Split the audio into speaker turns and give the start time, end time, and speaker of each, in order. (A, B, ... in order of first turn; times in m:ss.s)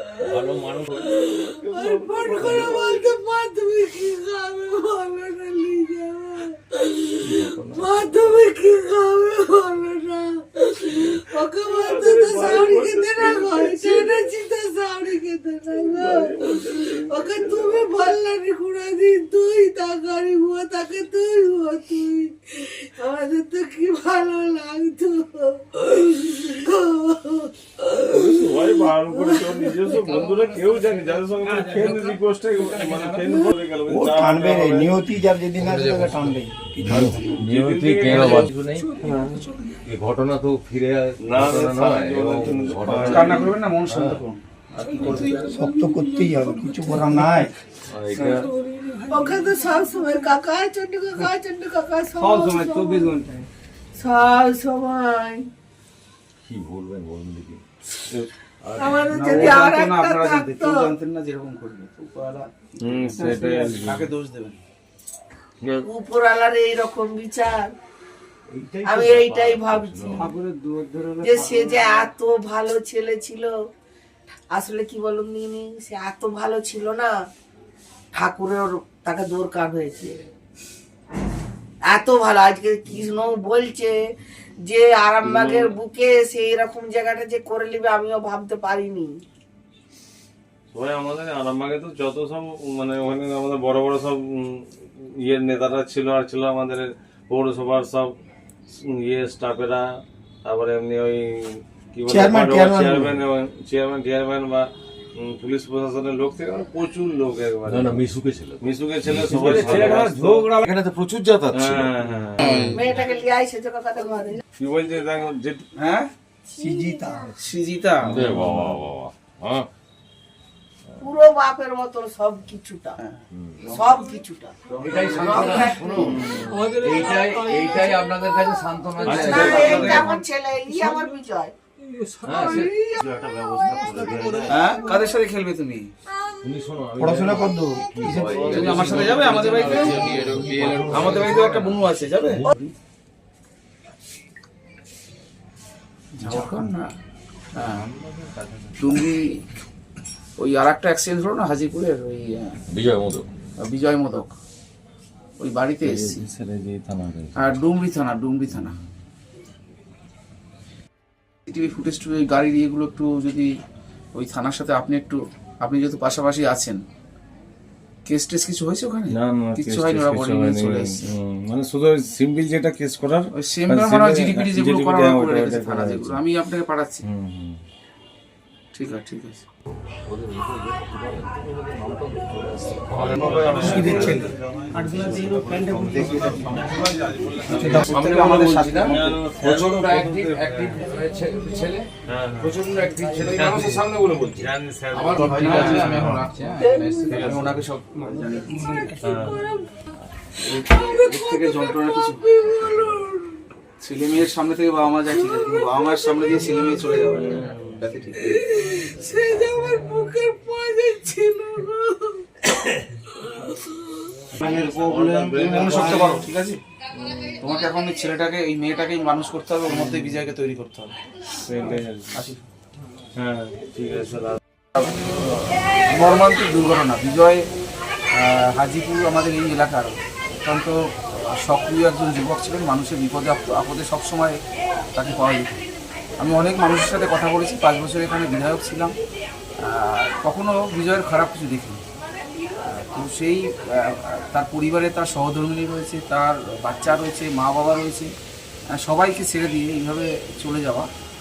0:00.5-0:00.8 A
0:00.7-0:01.1 B
0:01.2-0:29.6 C
0:01.6-0:02.9 D
0:07.4-0:07.8 B
0:11.8-0:14.2 D
0:15.7-0:17.9 D
0:28.1-0:35.0 D
0:33.8-0:36.5 E
0:36.8-0:38.5 D
0:36.8-0:38.9 B
0:38.1-0:38.8 A
0:39.9-0:43.2 B
0:40.0-0:41.4 A
0:41.2-0:43.5 D
0:42.5-0:43.0 A
0:43.0-0:45.8 F
0:43.9-0:44.2 B
0:45.4-0:47.5 E
0:46.8-0:47.5 F
0:47.9-0:48.2 B
0:49.1-0:53.1 C
0:52.2-0:53.4 F
0:54.0-0:55.5 C
0:56.4-0:57.6 B
0:56.7-0:57.6 A
0:58.6-0:59.0 B
0:58.8-1:00.9 C
0:59.1-1:04.6 F
1:02.8-1:04.1 D
1:05.8-1:07.7 C
1:08.6-1:10.1 B
1:08.8-1:10.4 C
1:10.2-1:12.0 F
1:11.2-1:13.5 C
1:14.5-1:17.2 C
1:18.1-1:20.2 C
1:21.8-1:24.0 C
1:24.6-1:29.2 C
1:25.2-1:25.7 D
1:30.7-1:38.1 D
1:38.7-1:39.8 D
1:40.4-1:48.1 D
1:42.0-1:43.2 E
1:47.7-1:51.9 B
1:48.2-1:48.5 A
1:48.6-1:50.6 D
1:49.1-1:50.1 A
1:49.4-1:50.6 F
1:50.6-1:51.3 A
1:51.5-1:52.6 D
1:52.4-1:52.7 B
1:52.7-1:54.4 C
1:54.6-1:55.6 D
1:55.8-1:56.1 F
1:56.6-1:57.3 E
1:56.6-1:56.9 C
1:57.4-1:58.2 F
1:58.1-1:59.7 B
1:58.3-1:59.6 A
2:01.0-2:03.0 C
2:03.0-2:03.9 F
2:03.6-2:06.2 C
2:04.8-2:10.0 A
2:04.8-2:05.5 F
2:04.8-2:06.0 B
2:06.1-2:06.7 D
2:06.7-2:10.0 B
2:06.8-2:07.8 C
2:09.0-2:10.0 F
2:09.0-2:11.5 C
2:09.3-2:09.9 D
2:12.2-2:14.6 B
2:12.3-2:14.5 A
2:12.4-2:13.0 C
2:14.5-2:15.9 F
2:16.4-2:17.5 B
2:16.5-2:17.4 A
2:17.0-2:18.4 E
2:18.0-2:19.3 B
2:18.1-2:21.5 A
2:18.3-2:22.7 F
2:20.2-2:20.8 B
2:26.2-2:26.9 F
2:27.6-2:27.9 F
2:28.8-2:29.2 F
2:30.4-2:32.6 F
2:32.7-2:33.2 B
2:32.8-2:33.2 A
2:33.6-2:34.3 F
2:35.4-2:36.2 F
2:35.9-2:37.3 B
2:37.4-2:38.8 F
2:41.5-2:43.5 F
2:44.2-2:46.8 F
2:48.1-2:50.9 F
2:49.1-2:56.2 D
2:53.3-2:57.0 F
2:57.1-2:57.6 D
2:58.7-2:59.4 F
3:00.1-3:02.7 A
3:02.1-3:03.0 B
3:03.0-3:04.3 F
3:03.0-3:07.8 D
3:03.7-3:04.1 B
3:04.8-3:06.4 C
3:06.0-3:06.5 F
3:07.5-3:09.1 F
3:07.6-3:08.9 A
3:08.8-3:10.8 D
3:09.4-3:11.8 A
3:12.1-3:12.6 D
3:12.4-3:14.4 A
3:13.0-3:13.2 F
3:13.2-3:16.2 D
3:14.9-3:18.9 F
3:16.6-3:17.2 C
3:17.1-3:17.6 D
3:19.0-3:19.4 D
3:20.4-3:22.5 F
3:22.4-3:23.1 C
3:23.8-3:28.4 F
3:28.4-3:32.2 C
3:34.4-3:36.6 F
3:34.5-3:36.2 D
3:37.4-3:40.9 F
3:41.4-3:42.2 D
3:42.1-3:42.4 F
3:43.2-3:44.4 D
3:44.8-3:45.0 F
3:45.9-3:47.4 F
3:48.2-3:50.8 F
3:51.4-3:54.4 F
3:54.9-3:55.6 F
3:56.2-3:58.9 F
3:59.6-4:01.8 F
4:02.6-4:08.1 F
4:08.7-4:10.9 F